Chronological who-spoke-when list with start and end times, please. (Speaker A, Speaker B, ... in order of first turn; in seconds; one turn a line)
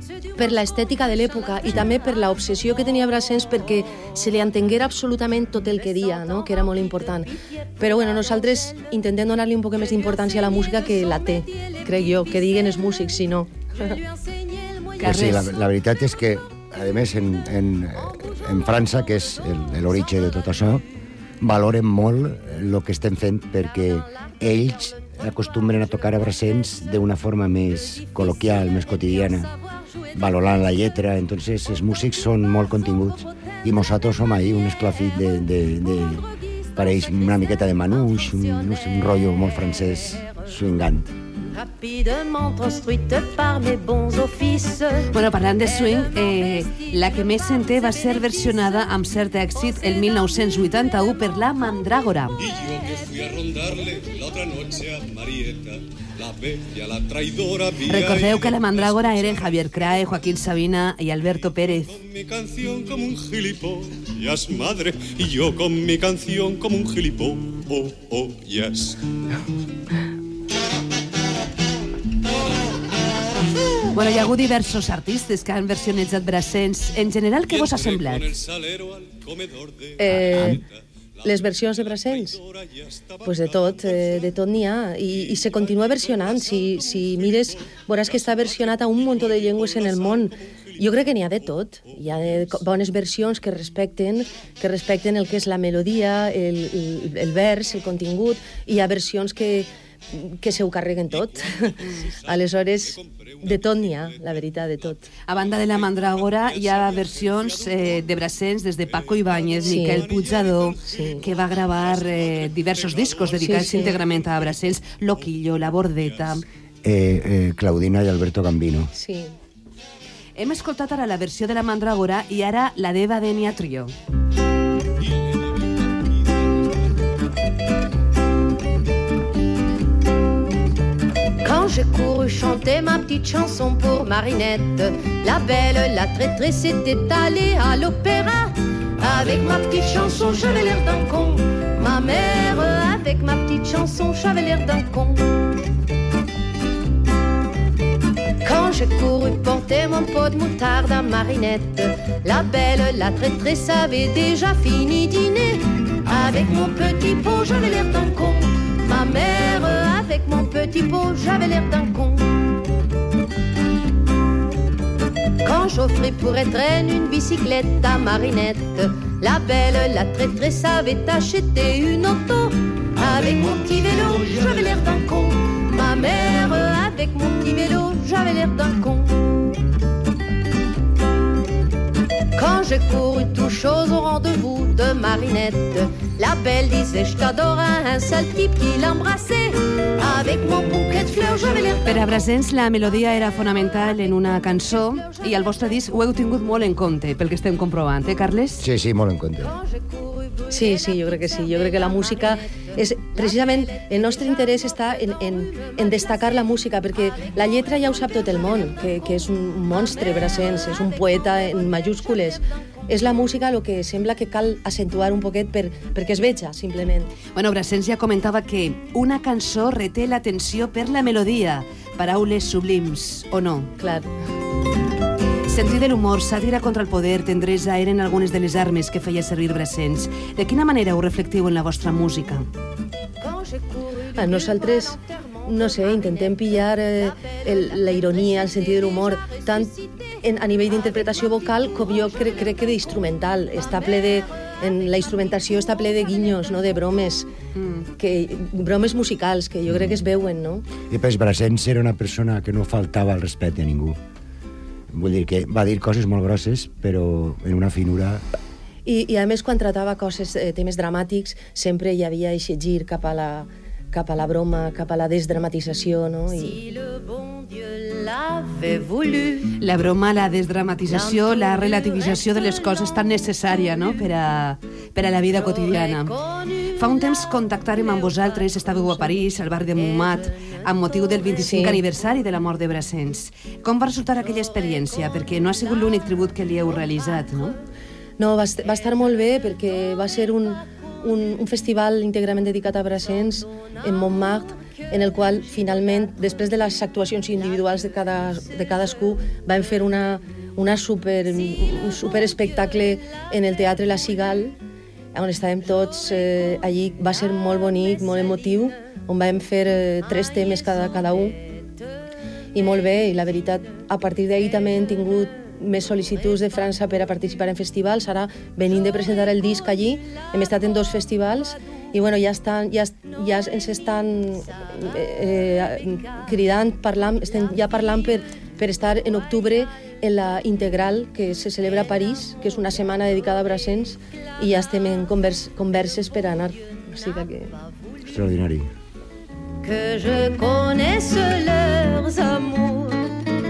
Speaker A: 0.3-14.0
Speaker B: 15.0-15.5
Speaker C: 15.0-20.8
Speaker C: 21.4-29.5
Speaker C: 30.1-41.1
Speaker D: 41.5-45.1
Speaker B: 45.1-52.4
Speaker E: 52.4-60.3
Speaker B: 57.8-61.9
Speaker E: 61.2-69.1
Speaker B: 73.9-78.3
Speaker E: 77.4-84.4
Speaker A: 80.0-80.6
Speaker A: 81.2-82.4
Speaker A: 83.2-105.0
Speaker E: 85.0-92.7
Speaker E: 101.1-116.4
Speaker B: 105.3-116.4
Speaker A: 109.7-110.1
Speaker A: 110.8-111.2
Speaker A: 113.4-114.0
Speaker C: 116.8-118.9
Speaker A: 118.9-119.3
Speaker B: 120.4-123.9
Speaker E: 125.0-126.7
Speaker D: 131.4-145.3
Speaker E: 139.0-141.0
Speaker D: 148.4-162.5
Speaker D: 165.4-179.4
Speaker D: 182.3-192.0
Speaker B: 191.8-198.6
Speaker C: 198.6-199.5
Speaker A: 200.5-217.1
Speaker B: 217.3-223.7
Speaker A: 223.8-224.1
Speaker B: 225.5-232.5
Speaker D: 233.2-235.0
Speaker A: 234.2-247.3
Speaker B: 247.5-247.9
Speaker A: 248.0-250.6
Speaker C: 249.7-250.0
Speaker C: 250.9-254.0
Speaker C: 254.9-258.2
Speaker A: 258.9-266.6
Speaker D: 266.4-269.6
Speaker B: 269.6-276.1
Speaker D: 270.9-272.3
Speaker D: 275.3-277.1
Speaker B: 276.8-287.6
Speaker D: 277.8-279.1
Speaker D: 279.7-280.6
Speaker A: 281.4-281.8
Speaker A: 288.2-304.6
Speaker A: 305.1-311.4
Speaker A: 312.5-337.5
Speaker C: 338.0-338.7
Speaker D: 339.6-343.1